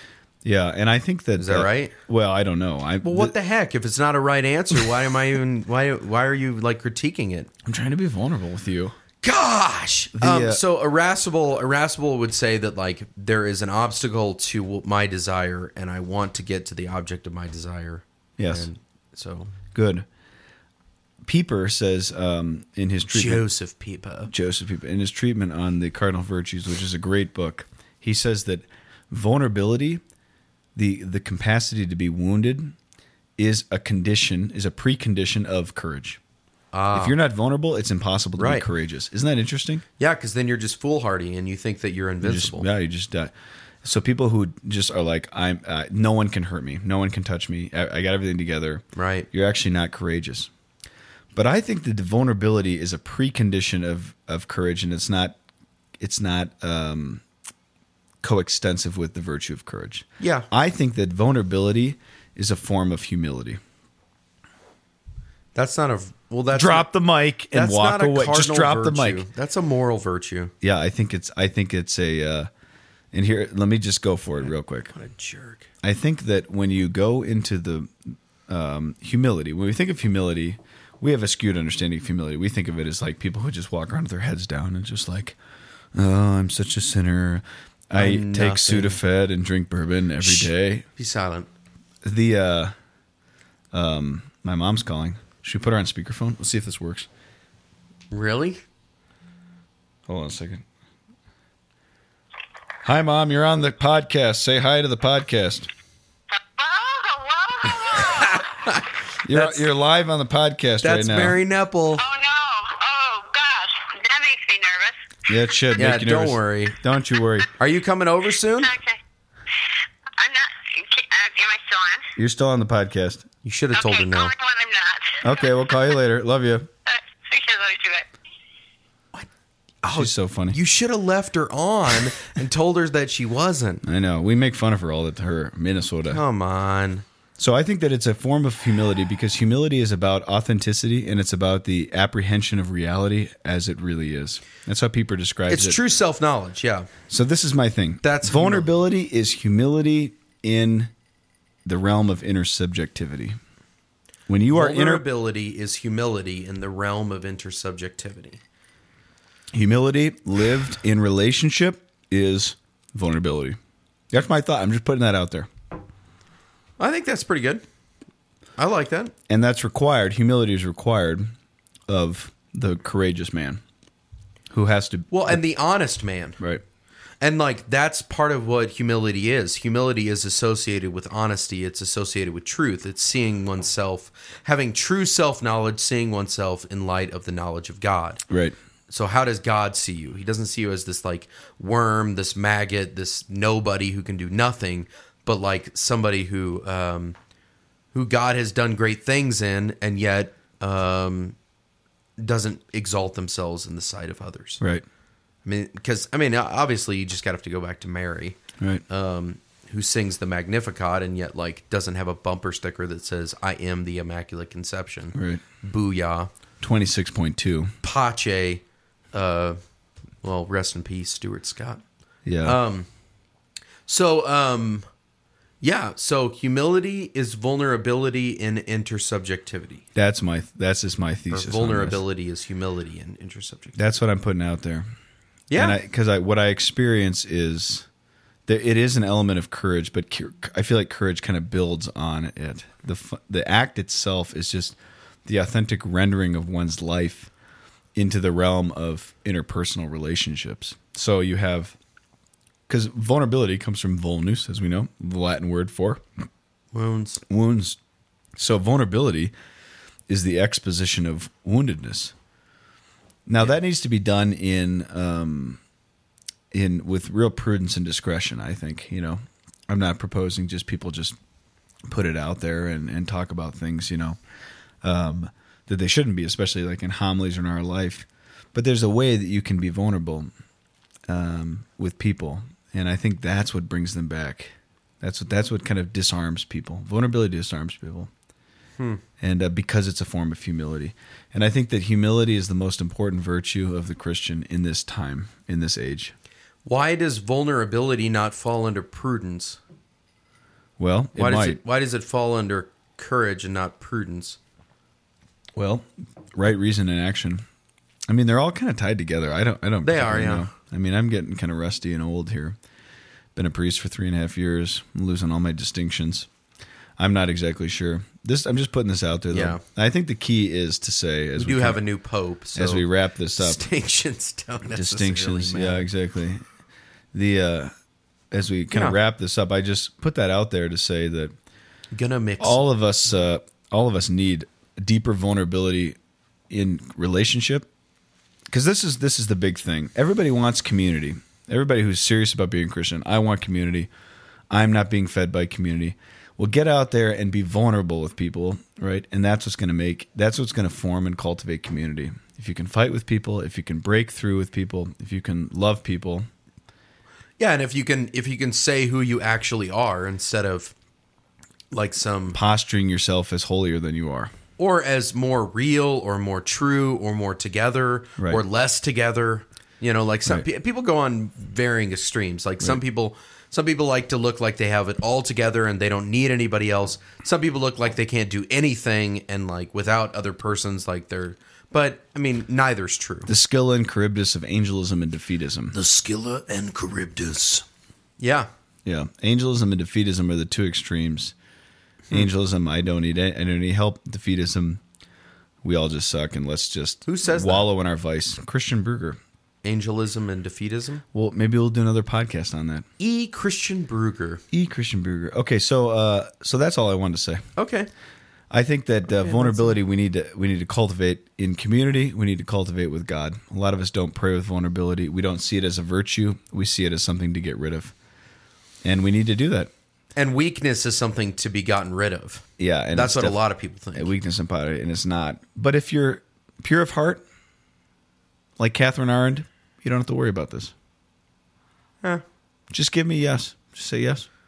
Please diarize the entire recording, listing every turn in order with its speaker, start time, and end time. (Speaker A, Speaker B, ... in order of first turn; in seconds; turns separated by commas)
Speaker A: 0.4-3.3, Speaker B: 1.4-1.9, Speaker B: 3.0-7.5, Speaker A: 7.6-8.9, Speaker B: 9.2-19.5, Speaker A: 10.1-10.6, Speaker A: 18.4-18.7, Speaker A: 19.7-20.1, Speaker A: 21.2-23.4, Speaker B: 23.1-24.3, Speaker A: 24.3-30.0, Speaker A: 30.8-32.7, Speaker A: 33.4-36.2, Speaker B: 36.7-37.1, Speaker A: 36.9-39.8, Speaker B: 38.4-38.6, Speaker B: 40.0-42.6, Speaker A: 42.2-43.3, Speaker A: 43.8-50.5, Speaker B: 48.9-49.3, Speaker A: 51.3-55.4, Speaker A: 56.0-57.2, Speaker A: 58.2-63.6, Speaker B: 60.2-60.5, Speaker B: 65.5-66.9, Speaker A: 66.5-69.2, Speaker B: 67.5-70.5, Speaker A: 70.6-72.5, Speaker A: 73.1-74.9, Speaker B: 74.9-75.7, Speaker A: 75.8-85.4, Speaker A: 85.9-90.8, Speaker B: 88.0-89.0, Speaker B: 90.2-91.5, Speaker A: 92.0-92.7, Speaker A: 93.7-97.1, Speaker B: 98.1-98.6, Speaker A: 100.1-100.6, Speaker A: 102.8-105.7, Speaker C: 106.4-108.4, Speaker B: 107.9-109.7, Speaker A: 109.2-111.4, Speaker B: 110.8-112.0, Speaker C: 112.0-115.0, Speaker A: 115.3-117.5, Speaker B: 115.8-116.8, Speaker B: 117.6-118.7, Speaker C: 118.6-119.0, Speaker C: 120.2-122.1, Speaker A: 122.2-123.2, Speaker B: 123.4-124.3, Speaker C: 123.7-125.8, Speaker A: 125.2-126.7, Speaker C: 126.9-128.1, Speaker B: 129.8-133.8, Speaker A: 129.9-130.6, Speaker A: 133.8-136.2, Speaker B: 136.1-137.0, Speaker A: 137.4-145.8, Speaker B: 145.5-146.9, Speaker A: 147.1-150.9, Speaker B: 148.0-148.7, Speaker A: 151.6-153.4, Speaker A: 154.3-155.0, Speaker B: 154.5-158.4, Speaker A: 159.5-163.6, Speaker A: 164.1-165.5, Speaker B: 166.8-167.6, Speaker B: 168.6-169.1, Speaker A: 169.3-171.3, Speaker A: 171.9-173.6, Speaker A: 174.5-175.4, Speaker B: 175.1-176.4, Speaker B: 177.2-188.2, Speaker A: 188.3-188.6, Speaker B: 188.9-197.2, Speaker B: 197.9-201.3, Speaker B: 202.2-204.6, Speaker B: 205.4-216.3, Speaker A: 208.6-208.8, Speaker A: 215.1-215.4, Speaker A: 216.6-217.7, Speaker B: 217.8-219.6, Speaker B: 220.2-221.8, Speaker A: 222.2-222.6, Speaker B: 222.4-222.9, Speaker B: 223.9-224.9, Speaker B: 225.6-229.8, Speaker A: 229.9-232.0, Speaker B: 231.3-233.8, Speaker A: 233.8-234.9, Speaker B: 235.5-235.8, Speaker A: 235.6-237.8, Speaker A: 238.4-247.3, Speaker A: 247.9-251.7, Speaker A: 252.7-256.0, Speaker B: 256.7-257.2, Speaker A: 257.3-257.8, Speaker A: 258.4-259.3, Speaker A: 260.1-262.1, Speaker A: 263.3-265.6, Speaker A: 266.5-271.1, Speaker A: 271.9-274.2, Speaker A: 274.8-280.3, Speaker A: 281.1-288.1, Speaker A: 289.2-296.1, Speaker B: 296.6-299.6, Speaker A: 300.8-301.6, Speaker B: 301.1-304.4, Speaker A: 305.6-307.4, Speaker A: 308.1-312.6, Speaker B: 309.8-310.5, Speaker A: 313.3-316.3, Speaker A: 317.0-321.8, Speaker B: 319.3-319.6, Speaker B: 321.4-322.8, Speaker A: 322.5-323.6, Speaker B: 323.4-325.9, Speaker A: 324.7-326.4, Speaker A: 327.1-327.7, Speaker A: 328.3-331.3, Speaker B: 328.7-329.0, Speaker B: 331.9-332.6, Speaker A: 332.4-336.0, Speaker A: 336.5-337.7, Speaker A: 338.5-343.9, Speaker A: 344.5-356.3, Speaker B: 357.4-360.7, Speaker B: 361.7-362.4, Speaker A: 362.3-364.3, Speaker B: 364.6-383.3, Speaker A: 383.3-385.8, Speaker B: 385.7-387.6, Speaker B: 388.2-388.5, Speaker A: 388.8-391.3, Speaker A: 392.1-394.8, Speaker A: 395.6-399.2, Speaker B: 397.1-397.7, Speaker B: 399.6-401.0, Speaker A: 401.1-402.9, Speaker B: 403.0-404.4, Speaker A: 404.5-407.5, Speaker B: 407.6-407.9, Speaker A: 408.5-417.9, Speaker B: 409.3-409.6, Speaker A: 418.8-419.7, Speaker B: 420.1-424.1, Speaker A: 422.6-423.4, Speaker A: 423.9-427.2, Speaker A: 428.6-430.7, Speaker A: 432.7-434.3